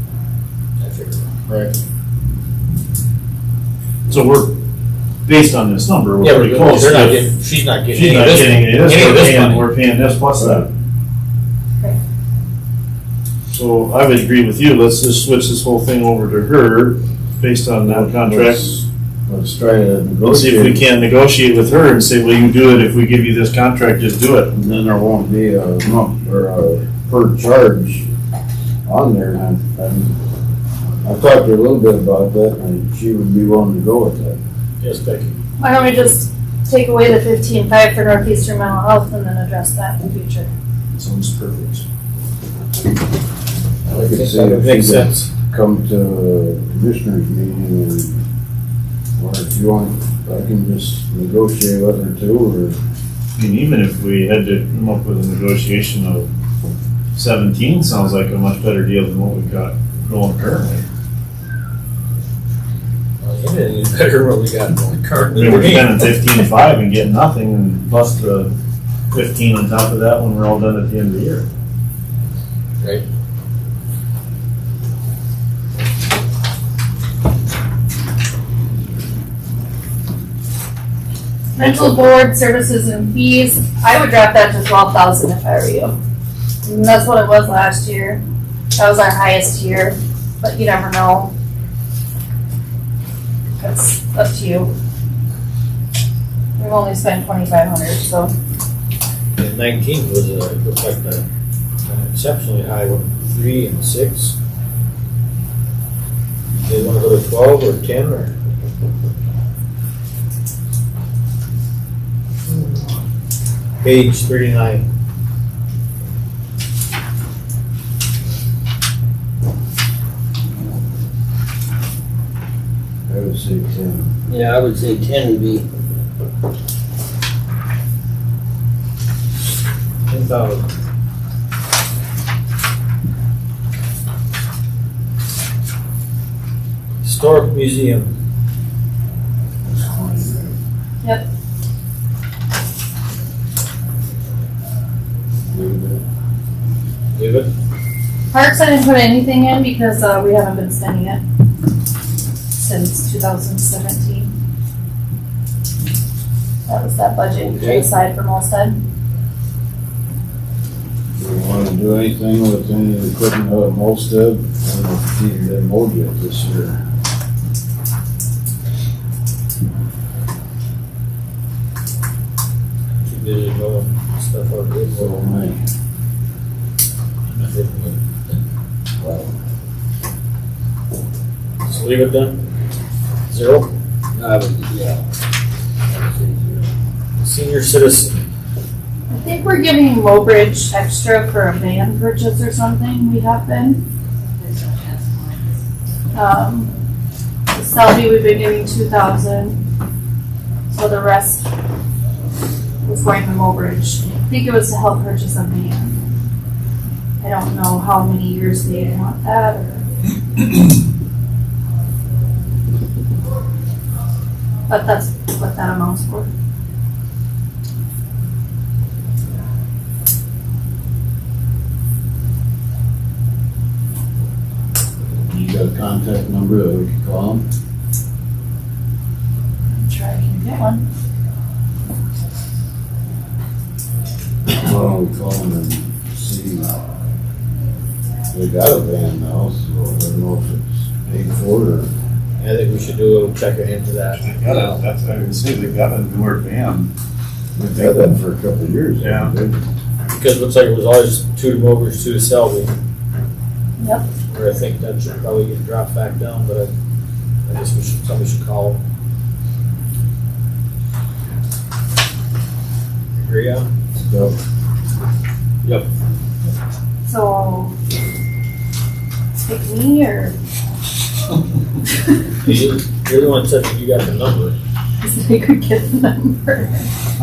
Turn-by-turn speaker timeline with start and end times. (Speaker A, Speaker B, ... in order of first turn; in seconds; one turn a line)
Speaker A: 0.8-1.8
Speaker B: 4.1-4.5
Speaker B: 5.3-7.3
Speaker A: 6.2-9.7
Speaker B: 7.9-10.7
Speaker C: 10.4-10.7
Speaker B: 13.5-18.8
Speaker C: 17.8-20.8
Speaker B: 20.2-24.5
Speaker C: 24.5-28.1
Speaker C: 28.9-30.1
Speaker C: 31.0-34.4
Speaker A: 34.8-35.4
Speaker D: 35.6-40.5
Speaker B: 41.0-41.9
Speaker C: 43.9-48.2
Speaker A: 43.9-45.3
Speaker C: 49.2-52.8
Speaker B: 53.4-56.3
Speaker B: 57.1-60.9
Speaker A: 63.2-66.0
Speaker B: 65.3-68.5
Speaker B: 69.1-71.5
Speaker D: 81.5-86.0
Speaker D: 86.7-88.2
Speaker D: 88.8-91.3
Speaker D: 93.6-94.7
Speaker D: 96.6-98.3
Speaker A: 99.4-101.2
Speaker A: 101.8-104.3
Speaker A: 106.6-108.4
Speaker A: 113.8-114.8
Speaker C: 123.1-124.1
Speaker E: 124.3-125.7
Speaker A: 130.1-130.7
Speaker A: 137.0-138.1
Speaker C: 139.7-140.6
Speaker C: 145.5-146.0
Speaker A: 147.1-147.5
Speaker D: 148.3-151.2
Speaker D: 152.5-154.3
Speaker D: 156.7-158.8
Speaker E: 157.5-157.8
Speaker C: 161.2-166.8
Speaker A: 173.0-175.2
Speaker C: 174.9-175.6
Speaker A: 177.3-178.4
Speaker C: 179.0-179.3
Speaker A: 181.6-182.4
Speaker A: 183.3-183.7
Speaker E: 184.2-185.0
Speaker E: 185.9-186.7
Speaker A: 187.2-188.3
Speaker D: 189.1-193.9
Speaker D: 196.1-196.7
Speaker D: 197.5-199.7
Speaker D: 200.7-201.5
Speaker D: 202.8-206.0
Speaker D: 207.2-209.8
Speaker D: 214.7-216.3
Speaker C: 225.3-227.4
Speaker D: 229.8-230.9
Speaker C: 234.5-236.8
Speaker C: 238.3-241.9
Speaker A: 242.4-244.2
Speaker B: 244.2-246.9
Speaker C: 247.6-249.6
Speaker B: 249.0-249.3
Speaker A: 250.1-252.7
Speaker D: 253.8-254.1
Speaker A: 254.3-256.7
Speaker A: 257.5-258.8
Speaker A: 263.2-263.7
Speaker C: 263.9-264.4
Speaker D: 267.1-267.7
Speaker D: 269.4-270.4
Speaker A: 272.4-274.6
Speaker D: 275.0-276.8